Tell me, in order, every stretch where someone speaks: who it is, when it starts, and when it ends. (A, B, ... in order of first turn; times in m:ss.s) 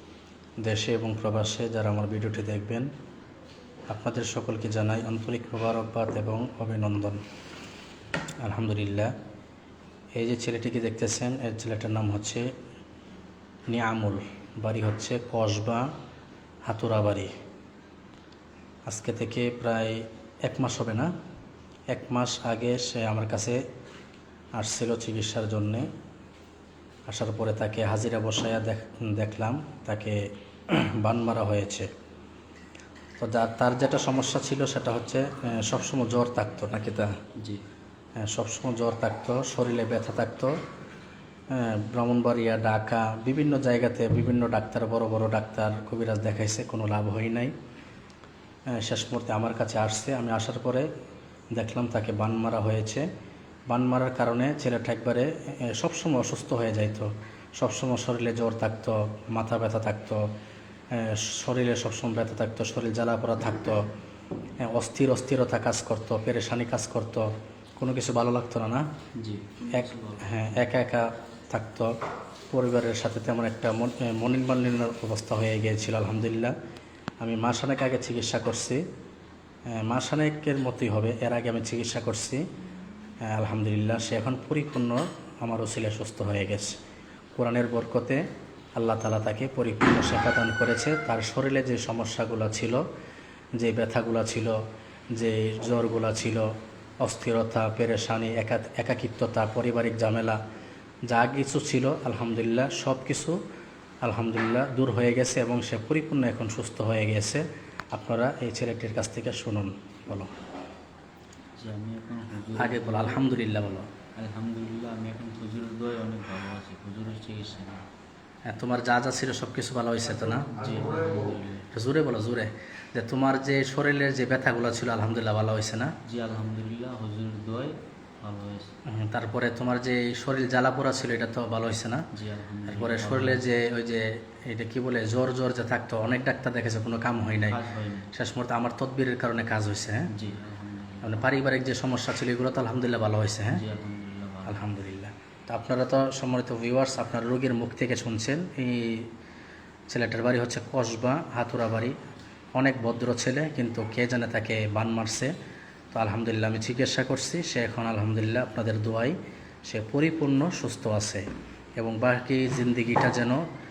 0:00.6-0:02.9 A
0:03.9-0:07.2 A
0:08.4-0:09.1 A
0:10.2-0:12.5 A
0:13.7-0:15.9 A
0:16.7-0:17.3 A
0:18.9-0:21.1 A
0:21.9-0:23.6 A
0:24.6-0:25.9 A
0:27.1-0:31.9 A
0:33.2-0:37.1 A
0:38.2-0:40.6 A
0:41.5-0:47.5 A
0:48.7-0:50.9 A
0:51.6-0:53.0 A
0:53.7-1:00.2 A
1:00.9-1:03.8 A
1:04.6-1:08.8 A
1:09.2-1:10.3 B
1:09.7-1:11.9 A
1:12.5-1:16.5 A
1:17.2-1:18.8 A
1:19.8-1:22.4 A
1:23.3-1:26.8 A
1:27.4-1:28.2 A
1:28.8-1:32.8 A
1:33.6-1:34.6 A
1:35.2-1:36.5 A
1:37.0-1:40.4 A
1:41.1-1:43.4 A
1:44.0-1:50.3 A
1:51.6-1:53.4 B
1:52.6-1:53.9 A
1:54.2-1:57.8 B
1:58.5-2:00.5 A
2:00.5-2:01.7 B
2:01.7-2:06.0 A
2:06.0-2:08.7 B
2:08.9-2:12.1 A
2:12.1-2:13.4 B
2:12.7-2:17.6 A
2:17.5-2:18.1 B
2:18.1-2:20.1 A
2:20.1-2:21.3 B
2:21.0-2:23.6 A
2:23.5-2:24.6 B
2:24.5-2:29.1 A
2:29.9-2:32.0 A
2:32.6-2:35.3 A
2:35.9-2:39.2 A
2:39.7-2:41.2 A
2:41.8-2:43.4 A